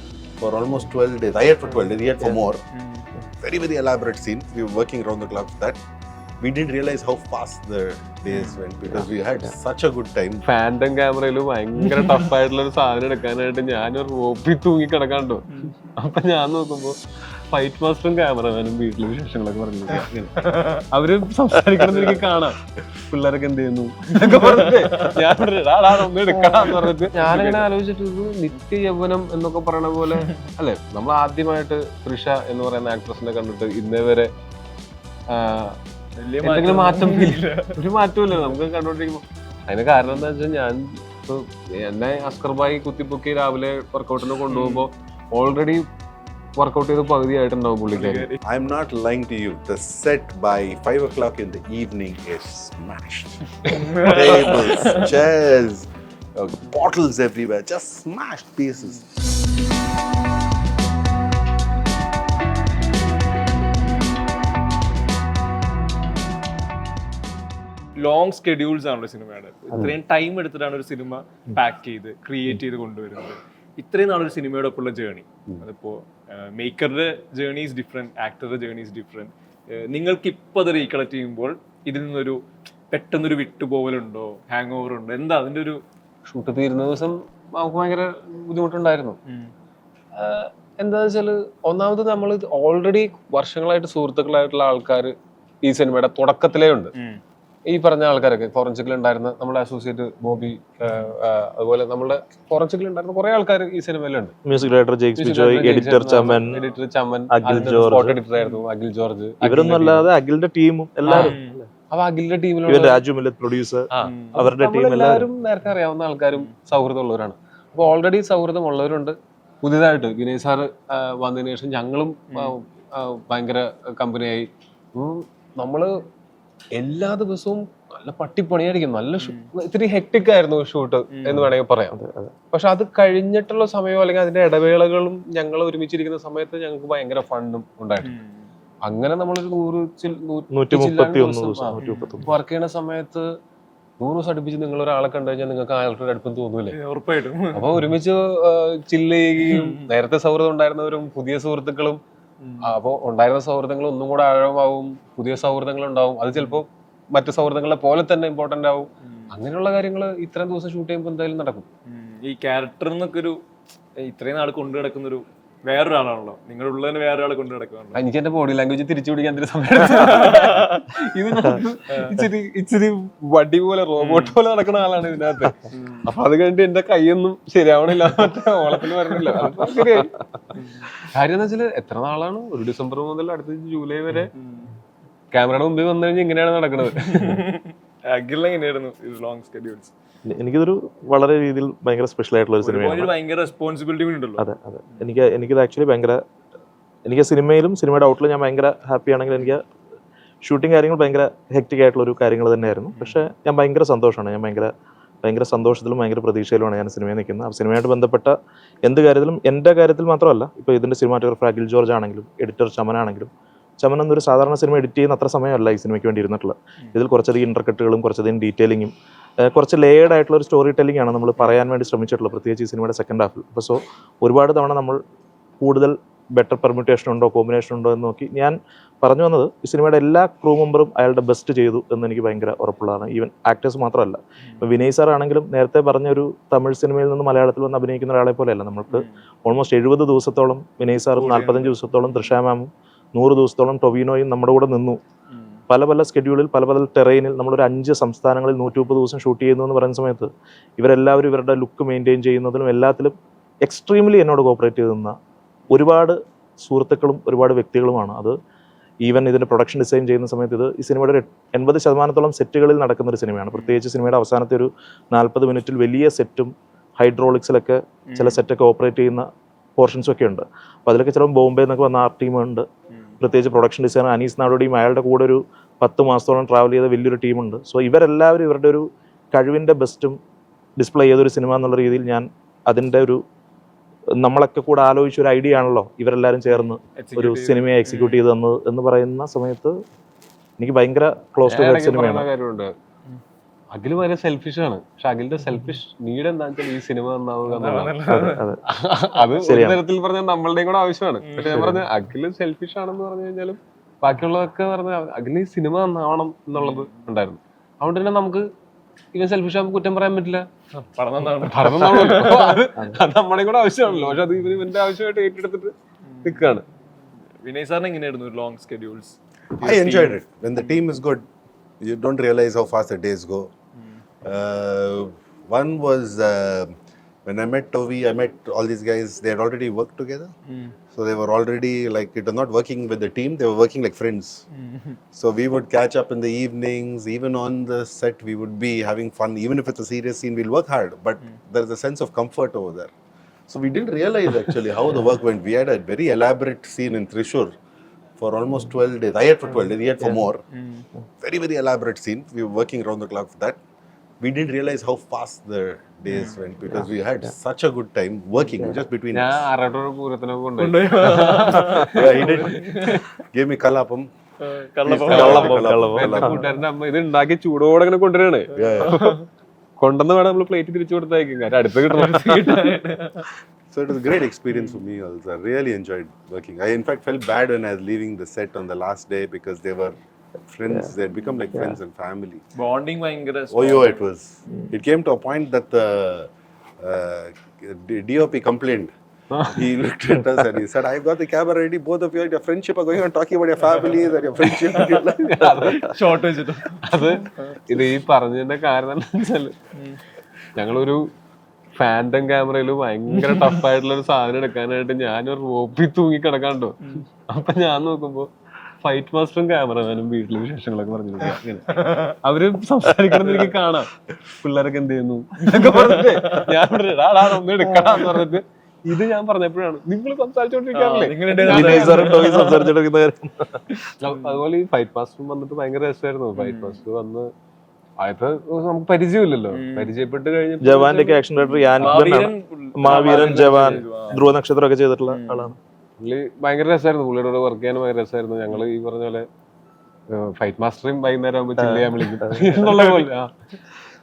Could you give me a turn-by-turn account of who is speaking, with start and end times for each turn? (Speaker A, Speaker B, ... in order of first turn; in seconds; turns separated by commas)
Speaker A: 0.4-2.6, Speaker B: 2.7-3.1, Speaker A: 3.4-5.8, Speaker A: 6.4-10.4, Speaker B: 8.3-8.6, Speaker C: 10.4-17.0, Speaker B: 11.9-12.3, Speaker C: 17.5-22.6, Speaker B: 20.4-20.8, Speaker B: 21.9-22.2, Speaker C: 23.1-34.3, Speaker B: 24.3-25.2, Speaker B: 26.3-27.7, Speaker C: 35.3-35.8, Speaker B: 36.2-37.8, Speaker C: 36.4-45.9, Speaker B: 44.5-44.9, Speaker C: 46.6-48.3, Speaker B: 47.9-48.4, Speaker A: 48.4-59.1, Speaker B: 53.7-55.1, Speaker B: 68.0-82.4, Speaker B: 82.9-85.8, Speaker C: 86.3-89.2, Speaker B: 89.2-89.5, Speaker C: 90.1-96.9, Speaker B: 96.9-97.2, Speaker C: 97.7-104.4, Speaker D: 104.5-106.6, Speaker C: 105.2-110.1, Speaker D: 107.3-108.2, Speaker D: 109.4-111.3, Speaker C: 111.0-113.0, Speaker B: 111.1-111.6, Speaker D: 112.7-115.3, Speaker C: 113.9-125.9, Speaker B: 114.0-114.3, Speaker C: 126.7-131.9, Speaker B: 129.2-129.5, Speaker B: 131.1-131.5, Speaker D: 131.9-132.3, Speaker C: 132.5-138.1, Speaker B: 138.0-138.5, Speaker C: 138.8-143.3, Speaker D: 140.5-142.3, Speaker B: 141.8-142.2, Speaker C: 144.0-146.8, Speaker B: 146.7-147.7, Speaker C: 147.5-152.0, Speaker B: 149.4-149.8, Speaker B: 152.4-152.7, Speaker C: 152.6-161.7, Speaker B: 156.3-156.6, Speaker B: 159.0-159.3, Speaker B: 161.9-163.4, Speaker B: 164.0-168.0, Speaker C: 167.9-180.1, Speaker B: 169.9-170.8, Speaker B: 171.9-172.3, Speaker B: 174.0-174.3, Speaker B: 175.7-176.1, Speaker B: 180.5-181.1, Speaker C: 181.1-184.3, Speaker B: 184.3-184.7, Speaker C: 185.3-187.4, Speaker B: 186.9-189.9, Speaker D: 190.3-193.1, Speaker B: 192.6-195.1, Speaker D: 194.4-196.2, Speaker D: 197.1-199.6, Speaker D: 200.4-204.7, Speaker D: 205.2-225.0, Speaker D: 225.6-245.0, Speaker B: 241.1-241.8, Speaker B: 245.3-245.6, Speaker D: 245.7-255.2, Speaker D: 255.7-258.3, Speaker D: 259.0-272.7, Speaker B: 263.5-263.8, Speaker B: 268.1-268.4, Speaker D: 273.2-280.2, Speaker D: 280.8-283.2, Speaker D: 284.2-289.8, Speaker B: 286.6-288.2, Speaker D: 290.6-292.3, Speaker C: 291.4-292.7, Speaker C: 293.7-297.9, Speaker B: 297.5-298.5, Speaker D: 298.1-298.6, Speaker C: 298.6-308.5, Speaker D: 299.4-299.8, Speaker B: 301.2-301.7, Speaker D: 301.5-301.8, Speaker B: 306.6-307.0, Speaker C: 309.1-310.4, Speaker B: 310.8-312.6, Speaker C: 311.4-315.7, Speaker B: 316.1-316.6, Speaker C: 316.2-316.6, Speaker B: 317.4-320.8, Speaker A: 319.5-321.2, Speaker A: 321.8-323.5, Speaker A: 324.2-326.7, Speaker A: 327.2-330.3, Speaker B: 330.5-330.7, Speaker A: 330.9-334.4, Speaker B: 334.5-335.0, Speaker A: 335.1-342.9, Speaker A: 343.5-347.5, Speaker A: 348.2-350.4, Speaker B: 350.5-350.9, Speaker A: 351.2-353.6, Speaker A: 354.2-359.4, Speaker B: 356.1-356.4, Speaker C: 359.1-363.0, Speaker B: 360.6-363.0, Speaker A: 361.7-364.1, Speaker B: 364.4-365.7, Speaker A: 364.8-366.4, Speaker D: 365.1-366.3, Speaker C: 365.1-369.2, Speaker A: 368.5-369.1, Speaker B: 368.6-369.1, Speaker C: 369.8-372.8, Speaker B: 371.9-373.2, Speaker A: 373.7-382.4, Speaker B: 374.5-374.8, Speaker B: 382.6-384.1, Speaker A: 383.5-395.3, Speaker C: 389.3-389.6, Speaker C: 394.5-396.0, Speaker B: 395.7-397.9, Speaker C: 396.8-399.5, Speaker C: 400.6-401.1, Speaker C: 401.8-408.3, Speaker B: 403.1-403.6, Speaker C: 408.8-413.9, Speaker B: 411.7-412.2, Speaker B: 413.2-413.5, Speaker C: 414.4-422.1, Speaker B: 415.5-416.5, Speaker B: 420.7-422.7, Speaker D: 421.4-423.6, Speaker B: 423.7-424.1, Speaker C: 424.0-427.3, Speaker B: 426.4-426.8, Speaker C: 428.0-431.2, Speaker B: 429.5-429.9, Speaker D: 430.6-435.6, Speaker B: 431.8-434.3, Speaker C: 431.8-432.1, Speaker C: 432.8-434.2, Speaker B: 435.1-435.5, Speaker C: 436.0-439.3, Speaker C: 440.1-443.3, Speaker D: 441.6-442.5, Speaker B: 442.5-443.1